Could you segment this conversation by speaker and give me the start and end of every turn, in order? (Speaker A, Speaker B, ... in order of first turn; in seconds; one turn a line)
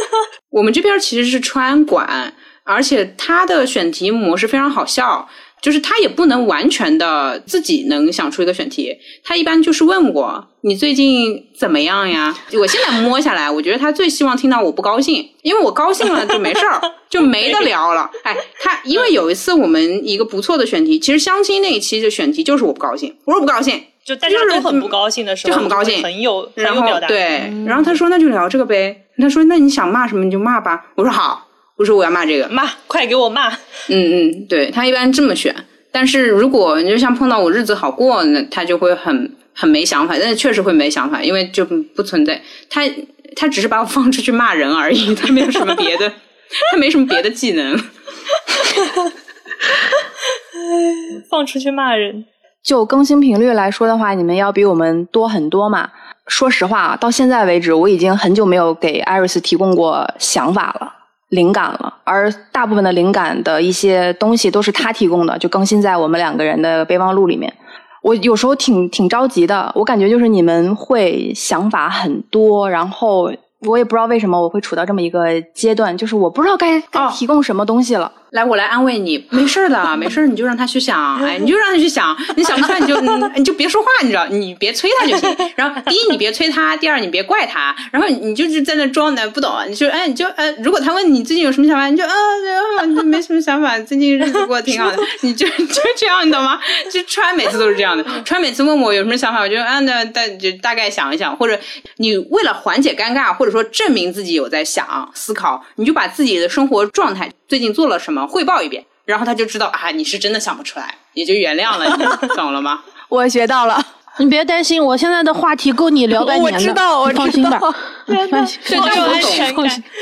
Speaker A: 0.5-24.9
Speaker B: 17.2-17.7
Speaker B: 24.1-27.3
Speaker A: 25.4-32.5
Speaker B: 32.5-33.6
Speaker A: 33.9-47.9
Speaker B: 50.7-52.2
Speaker C: 52.6-78.1
Speaker A: 76.9-77.2
Speaker A: 78.3-112.8
Speaker C: 113.1-113.9
Speaker D: 114.2-117.7
Speaker C: 116.1-117.8
Speaker B: 118.1-119.8
Speaker D: 118.3-119.8
Speaker A: 118.7-119.5